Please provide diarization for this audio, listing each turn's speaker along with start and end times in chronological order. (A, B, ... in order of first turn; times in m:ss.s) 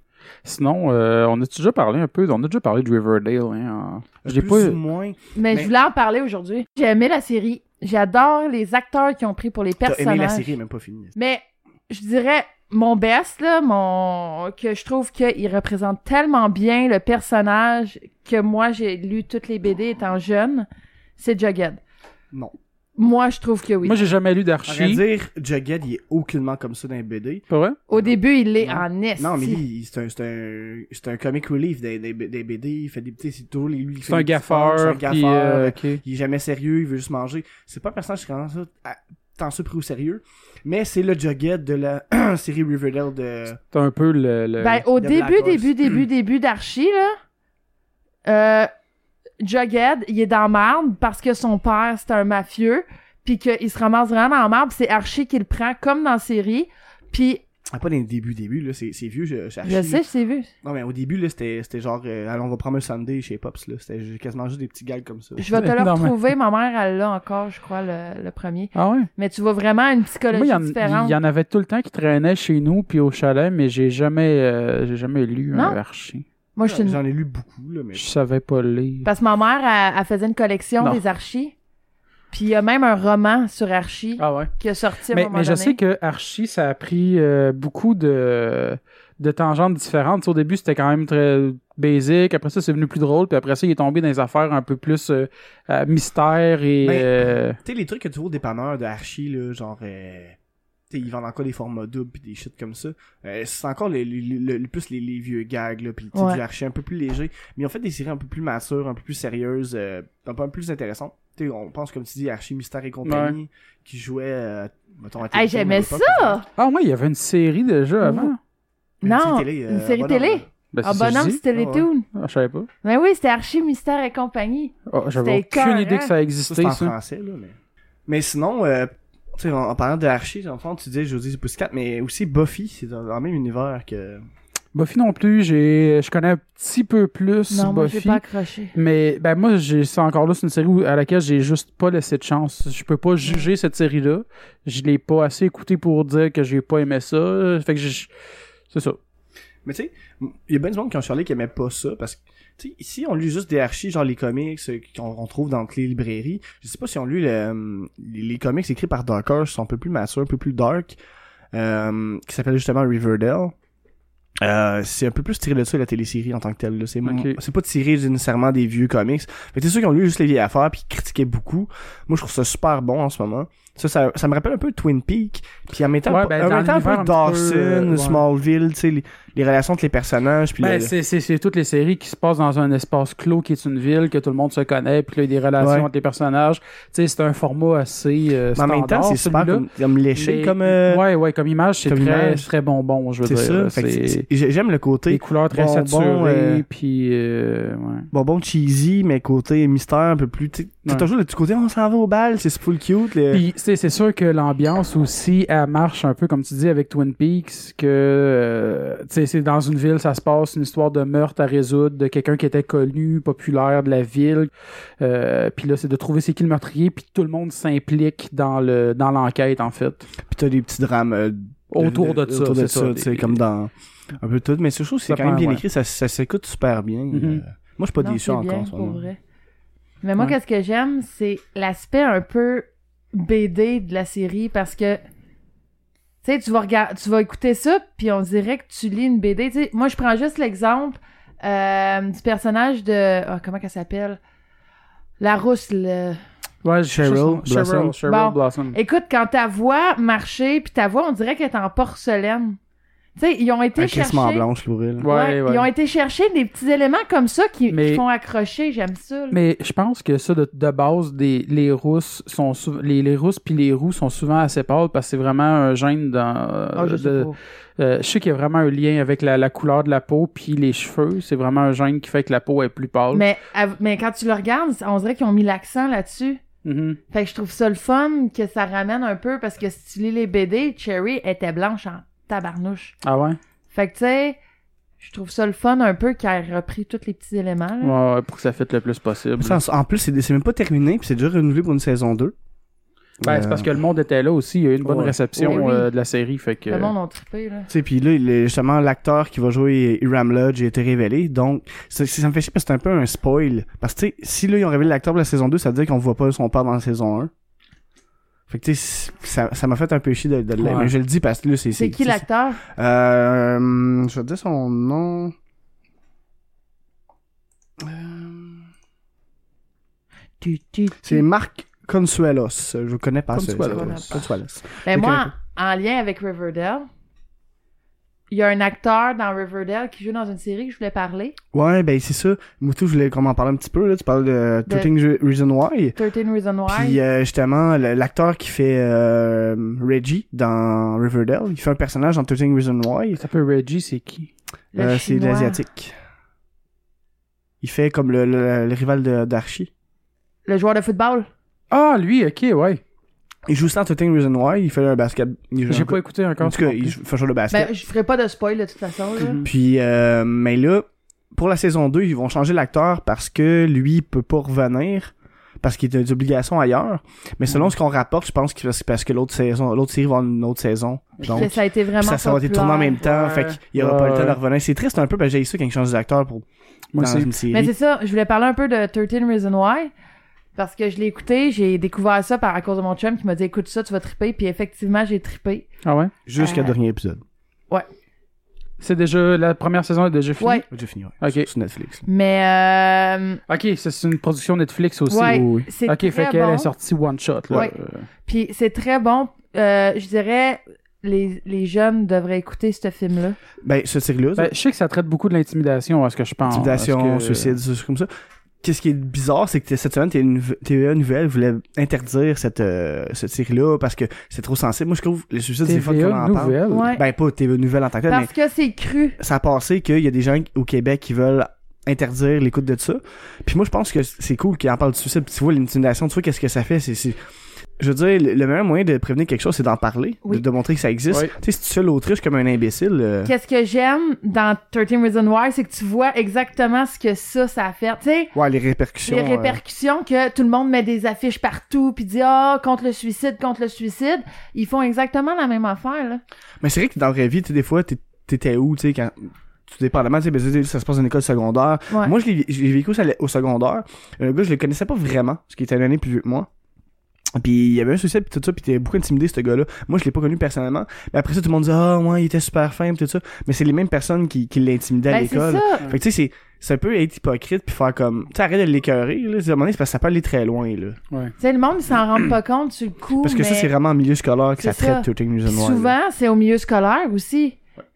0:00.4-0:04.8 A
0:04.2-0:05.7 B
0:05.4-0:10.6 C
0:09.8-0:11.1 B
0:11.2-0:20.7 C
0:21.2-0:21.8 C
0:23.0-0:24.1 C
0:23.8-0:25.0 A
0:24.7-0:28.2 B
0:27.5-0:27.8 A
0:27.9-0:29.6 C
0:29.2-0:43.6 B
0:34.1-0:36.0 A
0:43.7-0:44.8 A
0:44.6-0:47.2 C
0:45.0-0:45.7 B
0:48.2-0:48.7 C
0:49.4-0:57.4 C
0:57.7-1:00.0 B
0:59.6-1:00.5 C
1:00.6-1:05.6 B
1:05.4-1:11.2 C
1:05.5-1:06.3 A
1:08.8-1:09.1 A
1:10.3-1:16.2 A
1:16.6-1:17.0 C
1:16.6-1:18.1 B
1:18.0-1:19.1 A
1:19.0-1:21.5 C
1:22.3-1:25.8 C
1:24.2-1:24.5 A
1:25.1-1:37.6 A
1:36.8-1:40.4 B
1:40.9-1:56.4 B
1:46.2-1:46.4 C
1:53.0-1:53.4 A
1:55.3-1:56.5 C
1:56.6-1:58.4 A
1:58.0-1:58.3 C
1:59.0-2:02.0 C
1:59.0-2:00.5 B
2:00.7-2:01.4 A
2:01.5-2:01.9 B
2:02.1-2:02.7 A
2:02.8-2:06.1 C
2:04.9-2:06.9 A
2:06.5-2:07.6 B
2:08.1-2:14.2 B
2:14.7-2:18.2 A
2:17.5-2:18.7 C
2:18.8-2:28.1 A
2:28.7-2:29.0 A
2:29.6-2:41.0 B
2:41.5-2:43.5 B
2:44.4-3:00.9 B
2:47.0-2:47.4 A
2:56.1-2:58.2 A
3:00.6-3:09.6 A
3:05.6-3:05.9 B
3:08.6-3:11.0 B
3:10.2-3:14.3 A
3:11.8-3:12.5 B
3:13.2-3:16.6 B
3:15.1-3:18.1 A
3:18.1-3:23.4 B
3:23.3-3:40.1 A
3:40.2-3:49.1 B
3:41.7-3:43.4 A
3:45.1-3:45.6 A
3:47.1-3:47.4 A
3:48.0-3:49.2 C
3:50.0-3:55.0 C
3:56.2-4:04.2 C
4:05.2-4:06.2 C
4:06.6-4:08.8 A
4:06.9-4:08.0 B
4:08.1-4:12.6 C
4:13.2-4:14.4 C
4:13.8-4:15.1 B
4:15.0-4:15.7 A
4:15.0-4:19.4 C
4:17.7-4:18.0 A
4:19.3-4:33.2 A
4:26.8-4:27.4 C
4:33.1-4:36.4 C
4:36.6-4:37.0 A
4:37.1-4:42.9 C
4:43.0-4:43.4 A
4:43.7-4:44.4 C
4:45.0-4:47.9 C
4:47.8-4:49.6 A
4:49.4-4:52.3 B
4:53.2-4:53.7 B
4:53.2-4:56.9 A
4:54.8-4:55.6 B
4:55.4-4:55.9 C
4:56.7-4:57.7 C
4:57.7-5:07.3 B
5:08.5-5:15.3 B
5:10.6-5:10.9 A
5:11.8-5:12.6 C
5:17.8-5:18.7 B
5:20.4-5:21.3 C
5:21.0-5:25.3 B
5:23.3-5:24.2 A
5:23.7-5:24.2 C
5:24.8-5:26.9 C
5:28.3-5:31.4 C
5:31.5-5:36.0 B
5:36.0-5:37.0 C
5:36.7-5:43.2 B
5:43.2-5:44.3 A
5:44.7-5:45.6 C
5:44.8-5:46.0 B
5:47.6-5:49.7 B
5:50.5-5:51.3 C
5:51.7-5:52.8 A
5:53.5-5:57.7 B
5:55.7-5:57.0 A
5:57.5-5:59.4 C
5:59.2-5:59.5 A
5:59.4-6:16.4 B
6:11.2-6:11.5 A
6:11.3-6:13.0 C
6:13.0-6:14.4 A
6:16.9-6:17.3 A
6:17.0-6:17.7 B
6:17.5-6:19.9 C
6:20.6-6:25.7 C
6:25.8-6:26.1 A
6:26.3-6:27.2 B
6:26.4-6:26.7 C
6:28.8-6:30.7 A
6:30.7-6:32.0 B
6:31.2-6:31.5 A
6:32.1-6:33.4 C
6:33.5-6:38.1 A
6:35.1-6:36.7 C
6:38.3-6:43.4 C
6:43.6-6:44.5 B
6:44.4-6:47.6 A
6:46.4-6:48.1 B
6:48.6-6:58.3 B
6:55.6-6:56.9 A
6:56.7-6:57.0 C
6:58.1-6:59.2 C
6:59.2-7:07.2 B
7:07.8-7:13.3 B
7:13.2-7:18.3 C
7:18.3-7:19.6 B
7:19.1-7:26.2 C
7:26.6-7:36.5 B
7:37.4-7:51.0 B
7:45.1-7:45.8 C
7:51.4-7:53.7 C
7:53.2-7:55.9 B
7:54.6-7:57.6 C